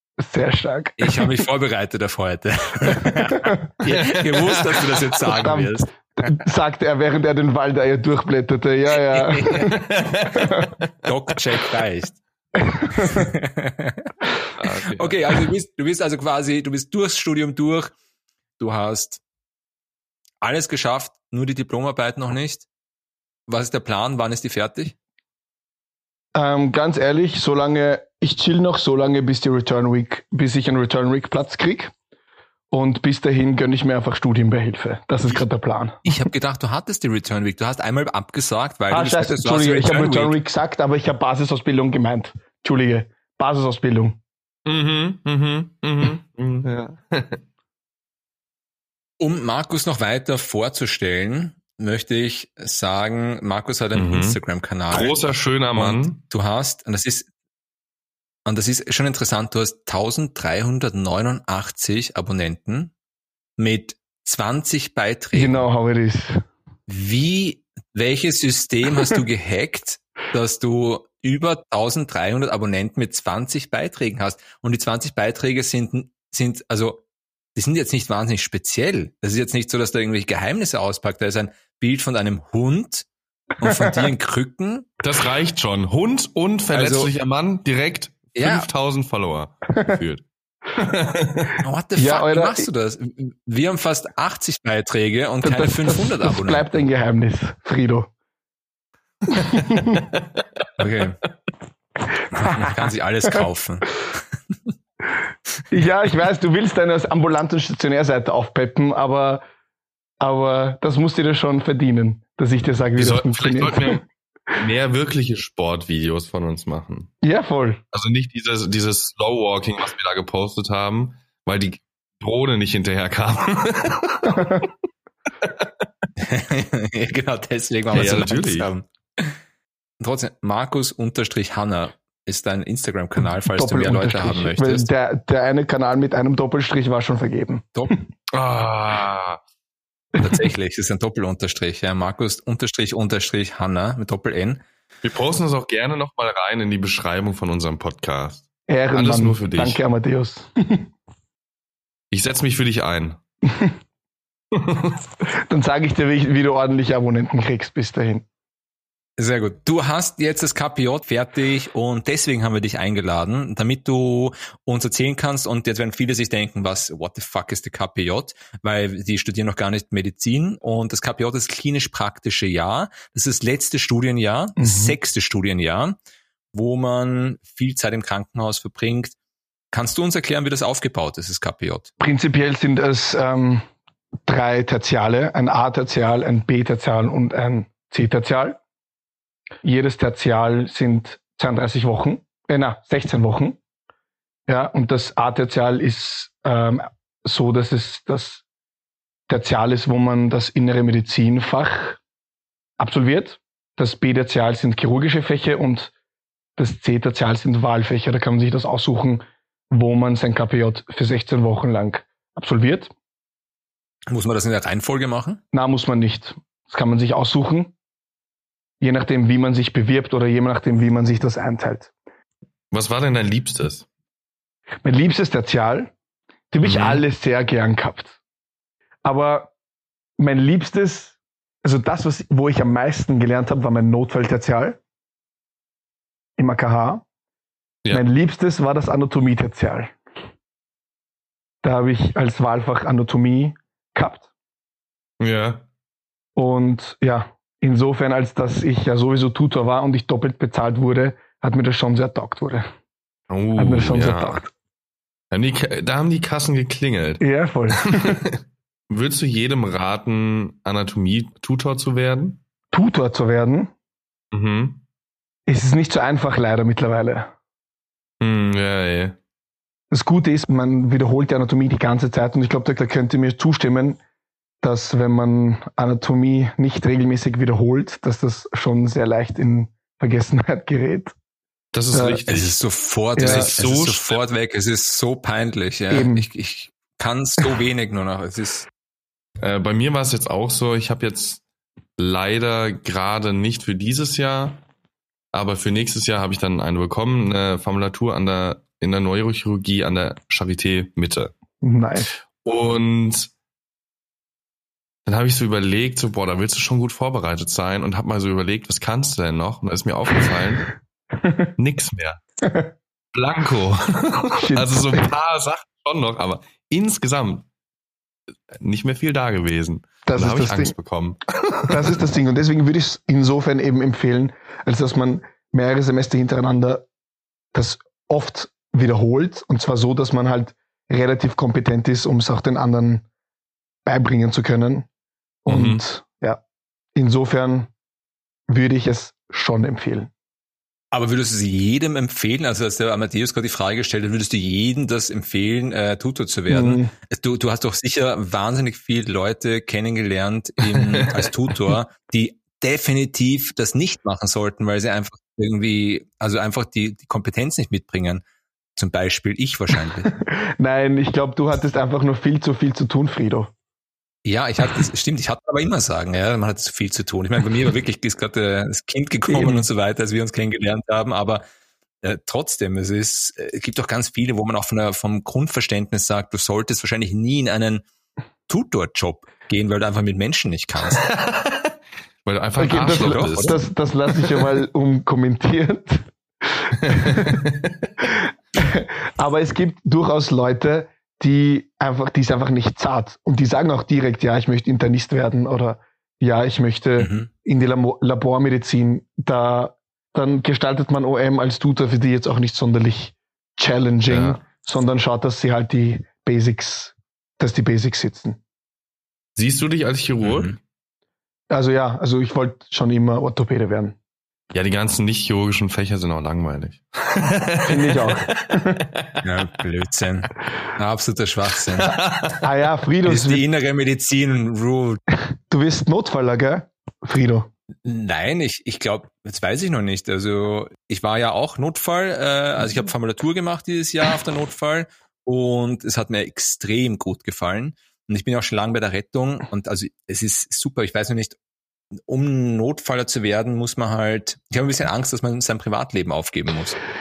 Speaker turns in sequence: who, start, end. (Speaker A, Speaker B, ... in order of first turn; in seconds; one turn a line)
Speaker A: 0.2-1.3
Speaker B: 1.0-6.3
Speaker A: 2.9-3.6
Speaker C: 3.9-4.8
Speaker A: 5.3-9.7
Speaker B: 9.2-9.7
Speaker C: 9.7-10.6
Speaker B: 11.0-12.2
Speaker A: 12.8-13.2
Speaker B: 12.9-14.1
Speaker C: 14.6-15.4
Speaker B: 14.9-17.9
Speaker B: 18.6-19.2
Speaker B: 20.4-22.6
Speaker B: 23.5-24.9
Speaker A: 26.3-31.9
Speaker A: 32.7-36.0
Speaker B: 36.0-40.4
Speaker A: 38.9-44.2
Speaker C: 44.6-47.4
Speaker B: 49.2-55.2
Speaker C: 53.9-54.4
Speaker C: 54.9-56.2
Speaker B: 55.7-57.3
Speaker B: 58.5-62.9
Speaker B: 63.6-65.6
Speaker A: 65.3-66.4
Speaker B: 66.9-77.0
Speaker B: 77.5-83.1
Speaker B: 83.6-84.9
Speaker C: 85.0-91.5
Speaker B: 86.7-87.1
Speaker B: 88.3-88.7
Speaker B: 91.6-96.7
Speaker A: 92.0-92.7
Speaker A: 95.4-98.1
Speaker A: 99.3-100.0
Speaker B: 100.8-101.2
Speaker B: 102.3-104.2
Speaker A: 102.4-102.8
Speaker A: 105.7-109.4
Speaker A: 110.2-114.0
Speaker C: 113.0-117.1
Speaker A: 117.2-117.8
Speaker C: 117.9-124.7
Speaker B: 126.2-129.3
Speaker C: 127.9-128.7
Speaker B: 130.0-134.9
Speaker A: 133.4-137.9
Speaker C: 138.3-139.4
Speaker B: 140.2-144.6
Speaker C: 145.0-149.8
Speaker A: 148.7-150.9
Speaker C: 152.1-153.2
Speaker C: 154.5-155.0
Speaker A: 155.3-158.2
Speaker B: 159.2-176.0
Speaker A: 174.6-175.0
Speaker B: 176.5-179.1
Speaker B: 179.7-181.9
Speaker A: 182.0-183.7
Speaker A: 184.2-188.6
Speaker A: 189.6-193.6
Speaker A: 194.5-198.4
Speaker A: 199.3-202.0
Speaker A: 202.8-205.9
Speaker A: 206.6-212.9
Speaker B: 214.1-215.4
Speaker A: 215.5-217.7
Speaker A: 218.8-221.9
Speaker C: 222.7-223.9
Speaker A: 224.8-225.9
Speaker A: 226.5-228.2
Speaker C: 226.6-227.0
Speaker A: 229.0-229.5
Speaker A: 230.2-234.8
Speaker A: 236.4-237.0
Speaker A: 237.9-240.0
Speaker A: 241.6-244.3
Speaker C: 245.2-245.7
Speaker A: 246.3-252.7
Speaker C: 253.3-254.4
Speaker A: 253.6-254.5
Speaker C: 255.3-258.3
Speaker A: 257.2-258.2
Speaker C: 258.9-262.4
Speaker A: 262.7-263.7
Speaker C: 264.3-264.8
Speaker A: 265.5-267.3
Speaker C: 268.2-269.2
Speaker A: 269.9-274.0
Speaker A: 274.6-281.1
Speaker C: 281.7-282.6
Speaker A: 281.9-282.2
Speaker B: 282.3-288.7
Speaker C: 283.1-284.2
Speaker A: 283.2-283.5
Speaker A: 285.9-286.3
Speaker C: 289.4-291.4
Speaker C: 292.0-294.6
Speaker C: 295.3-301.3
Speaker A: 301.6-302.2
Speaker C: 302.3-303.3
Speaker C: 305.1-310.7
Speaker A: 311.2-311.5
Speaker C: 311.6-312.2
Speaker A: 312.4-312.7
Speaker C: 313.1-317.5
Speaker A: 314.4-315.1
Speaker C: 318.5-321.9
Speaker A: 320.1-320.7
Speaker A: 321.7-326.9
Speaker A: 327.5-333.0
Speaker A: 333.9-334.9
Speaker A: 335.4-336.4
Speaker C: 335.5-335.8
Speaker A: 336.9-337.7
Speaker A: 338.5-340.1
Speaker B: 340.9-358.2
Speaker A: 346.5-346.9
Speaker C: 350.9-351.3
Speaker B: 358.8-360.1
Speaker A: 360.2-363.5
Speaker B: 364.2-371.4
Speaker A: 369.3-369.6
Speaker B: 372.0-377.8
Speaker B: 378.5-381.0
Speaker C: 381.0-381.7
Speaker C: 382.2-383.6
Speaker A: 382.6-387.4
Speaker B: 382.7-383.6
Speaker C: 386.8-387.6
Speaker A: 388.0-408.4
Speaker B: 397.0-397.3
Speaker C: 404.1-404.4
Speaker C: 409.4-410.5
Speaker B: 410.2-410.6
Speaker A: 411.5-413.9
Speaker C: 414.5-419.0
Speaker A: 417.7-418.8
Speaker B: 419.2-421.9
Speaker C: 421.8-422.4
Speaker A: 422.4-423.4
Speaker B: 423.0-425.0
Speaker A: 425.2-427.5
Speaker B: 427.8-441.4
Speaker B: 442.1-446.8